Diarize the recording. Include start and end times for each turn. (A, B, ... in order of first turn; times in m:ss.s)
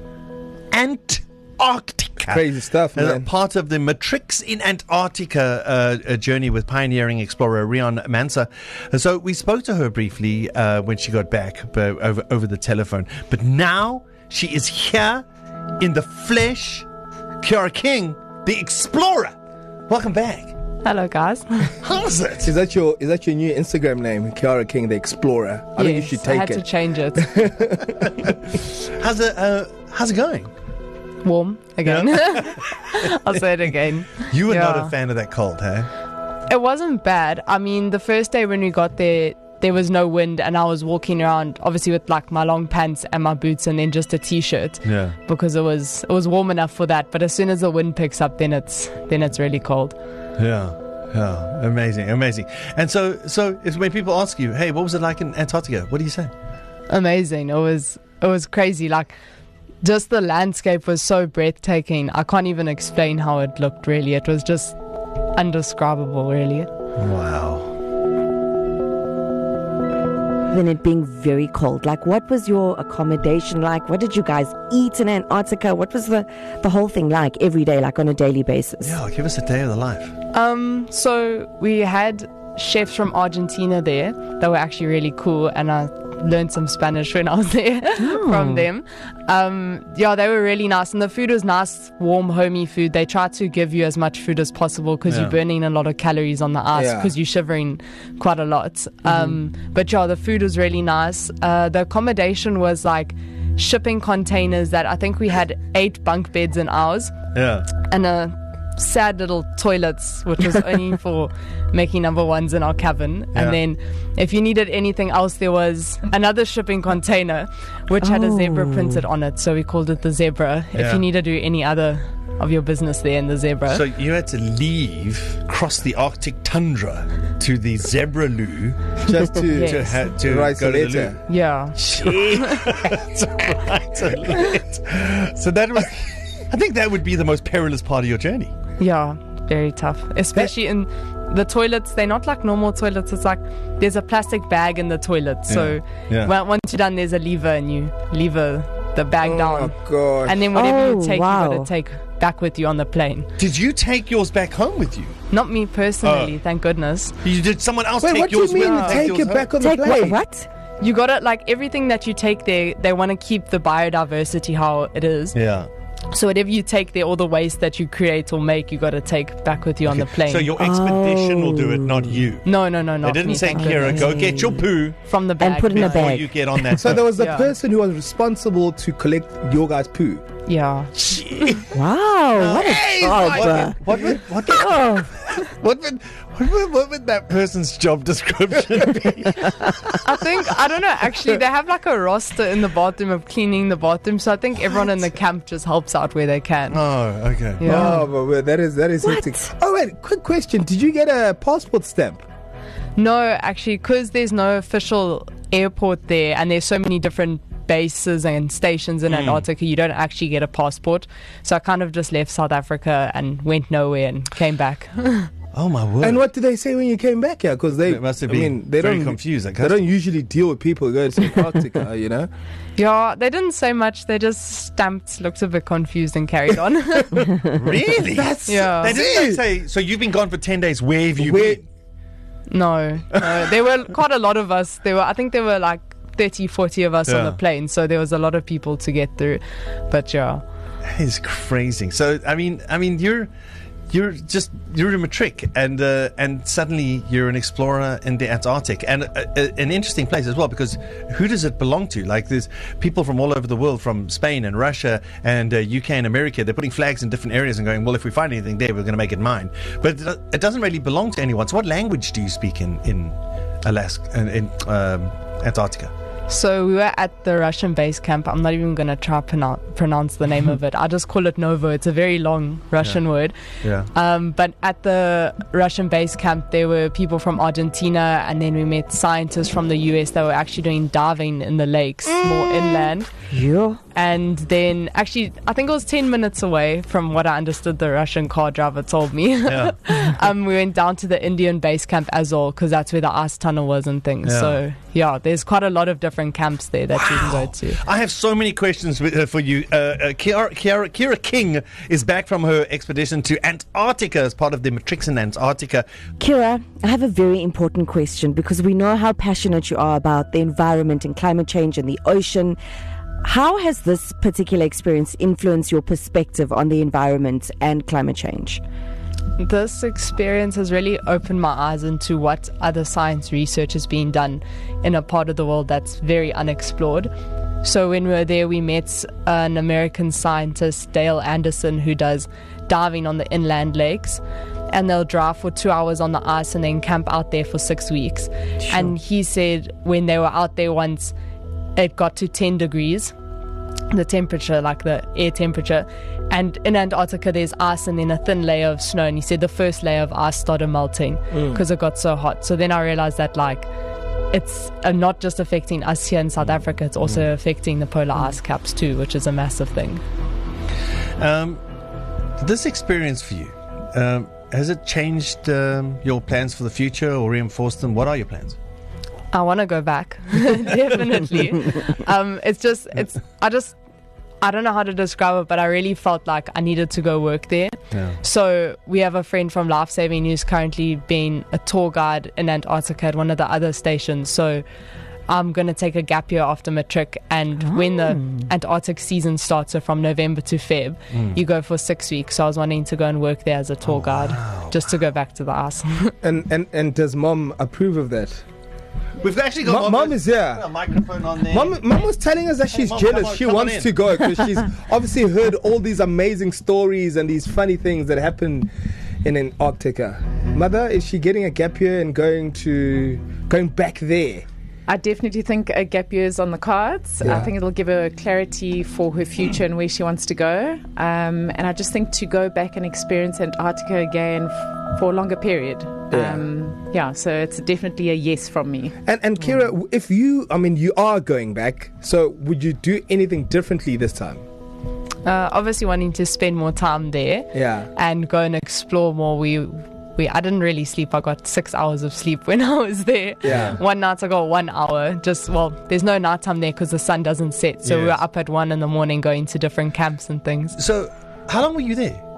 0:00.7-0:15.2 A
0:02.3-0:03.3 B
0:15.8-0:16.9 A
0:17.4-0:19.4 A
0:19.9-0:20.5 A
0:20.8-0:21.8 C
0:21.8-0:22.5 A
0:22.4-0:28.2 B
0:25.8-0:27.4 C
0:28.0-0:30.5 A
0:31.2-0:34.9 C
0:31.8-0:32.5 A
0:34.3-0:35.9 A
0:36.5-0:50.0 C
0:44.8-0:45.2 A
0:50.4-0:56.3 A
0:56.9-0:59.1 C
0:59.8-1:04.8 C
1:05.4-1:06.7 C
1:07.0-1:07.7 A
1:10.5-1:19.0 D
1:18.8-1:20.1 A
1:20.3-1:47.1 C
1:28.0-1:28.7 D
1:35.1-1:35.3 A
1:36.7-1:37.1 B
1:47.3-1:47.7 A
1:47.7-2:03.8 C
1:58.0-1:59.0 D
2:00.8-2:01.0 A
2:03.7-2:08.9 A
2:09.0-2:11.2 B
2:09.5-2:10.0 C
2:09.5-2:11.2 A
2:11.3-2:12.4 C
2:11.8-2:18.5 A
2:18.8-2:33.3 C
2:25.5-2:26.3 A
2:29.2-2:30.5 B
2:30.5-2:31.7 D
2:33.4-2:35.1 A
2:35.3-2:37.2 C
2:36.0-2:36.3 A
2:37.2-2:39.5 A
2:38.0-2:40.2 B
2:38.6-2:39.1 C
2:39.6-2:40.5 D
2:40.8-2:45.4 C
2:45.3-2:45.7 A
2:46.1-2:50.5 C
2:49.9-2:52.5 A
2:50.6-2:52.1 D
2:52.4-2:54.2 C
2:53.0-2:55.0 A
2:53.6-2:54.6 D
2:55.0-2:56.1 C
2:55.4-2:56.9 D
2:55.7-2:57.1 A
2:56.7-3:00.2 B
2:57.1-2:57.5 C
3:00.5-3:00.9 C
3:01.0-3:01.8 A
3:01.7-3:03.8 D
3:02.4-3:10.2 A
3:04.5-3:05.1 D
3:10.0-3:16.8 C
3:16.7-3:18.0 A
3:17.6-3:18.0 C
3:17.6-3:22.2 B
3:19.0-3:19.5 D
3:23.0-3:35.3 C
3:29.1-3:29.4 A
3:35.5-3:36.2 A
3:36.0-3:42.3 B
3:37.9-3:39.8 A
3:42.8-3:47.4 C
3:47.5-3:51.6 A
3:48.1-3:49.4 B
3:48.4-3:49.0 C
3:51.2-3:51.6 B
3:52.5-4:00.4 C
3:57.1-3:57.4 A
4:00.9-4:03.3 A
4:03.9-4:25.9 A
4:26.3-4:33.4 C
4:33.6-4:33.9 A
4:33.9-4:43.1 C
4:43.3-4:43.8 D
4:43.9-4:57.8 C
4:49.5-4:49.7 A
4:54.2-4:54.6 A
4:57.0-5:05.8 A
5:06.2-5:12.6 D
5:13.2-5:18.6 D
5:19.4-5:27.1 C
5:27.6-5:41.1 C
5:41.8-5:43.1 C
5:43.9-5:53.7 C
5:51.3-5:51.6 B
5:54.3-6:00.0 C
6:01.2-6:01.6 A
6:02.4-6:08.6 A
6:09.3-6:13.8 C
6:14.4-6:24.6 C
6:17.9-6:18.2 A
6:25.3-6:36.2 C
6:28.1-6:28.4 D
6:31.1-6:31.4 A
6:33.8-6:34.8 A
6:36.2-6:38.4 B
6:39.2-6:41.8 A
6:39.6-6:40.7 B
6:41.5-6:48.7 B
6:42.7-6:44.0 A
6:49.2-6:54.4 B
6:54.9-7:09.0 E
6:57.2-6:57.5 B
7:06.1-7:06.5 B
7:09.0-7:14.4 B
7:15.2-7:30.8 C
7:17.5-7:17.9 B
7:23.4-7:23.8 B
7:23.5-7:23.8 A
7:27.8-7:28.2 A
7:30.8-7:32.2 A